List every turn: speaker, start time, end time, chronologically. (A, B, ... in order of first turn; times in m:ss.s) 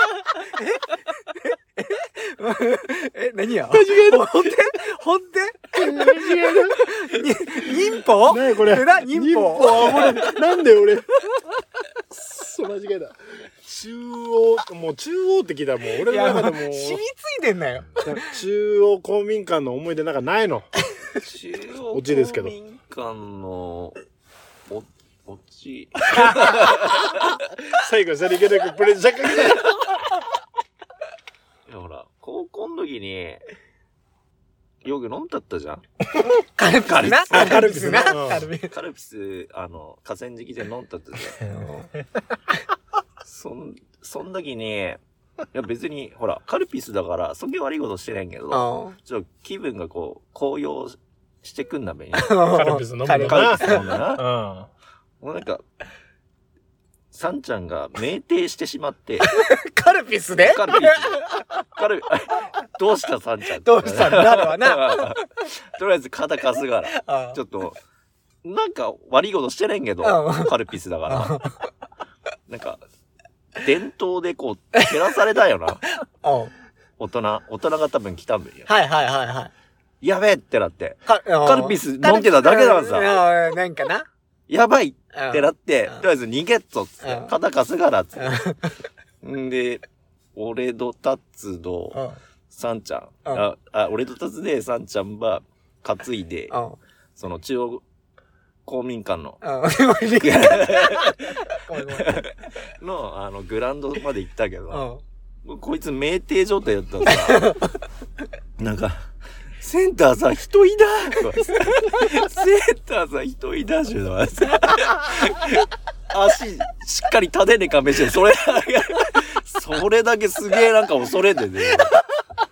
0:00.5-0:10.3 A
0:03.7-0:04.5 B
0:05.7-0:06.9 B
0:08.2-0:11.1 B
0:12.1-0:17.0 B
0:16.0-0:18.2 A
0:18.0-0:20.7 B
0:21.2-0:24.0 C
0:21.9-0:22.5 B
0:24.7-0:27.3 C
0:26.1-0:30.0 B
0:31.7-0:33.4 C
0:34.8-0:35.8 C
0:36.4-0:38.7 A
0:36.9-0:37.5 C
0:37.2-0:38.5 B
0:38.7-0:41.4 C
0:41.4-0:41.9 A
0:43.2-0:45.0 C
0:45.5-0:52.5 C
0:48.5-0:49.0 A
0:52.1-0:54.0 A
0:52.5-0:54.7 B
0:53.2-0:54.2 C
0:55.2-0:55.6 C
0:57.1-0:59.3 C
0:59.2-1:01.5 A
1:00.4-1:07.8 C
1:03.6-1:05.2 A
1:06.9-1:07.4 A
1:08.4-1:11.5 C
1:10.0-1:10.5 A
1:11.1-1:11.6 A
1:12.5-1:12.8 C
1:13.6-1:15.8 C
1:16.0-1:16.5 A
1:17.0-1:18.7 C
1:18.7-1:19.5 A
1:20.0-1:23.2 C
1:21.0-1:24.1 A
1:24.5-1:28.4 C
1:25.1-1:26.0 A
1:27.0-1:27.3 A
1:28.2-1:28.7 A
1:29.2-1:29.8 C
1:30.3-1:32.0 C
1:31.9-1:32.2 A
1:32.5-1:36.5 C
1:36.5-1:36.8 A
1:37.2-1:37.8 C
1:38.6-1:39.4 C
1:39.4-1:42.2 A
1:40.2-1:44.9 C
1:44.7-1:45.0 A
1:45.4-1:47.5 C
1:47.0-1:47.7 A
1:48.6-1:49.1 C
1:49.6-2:02.0 C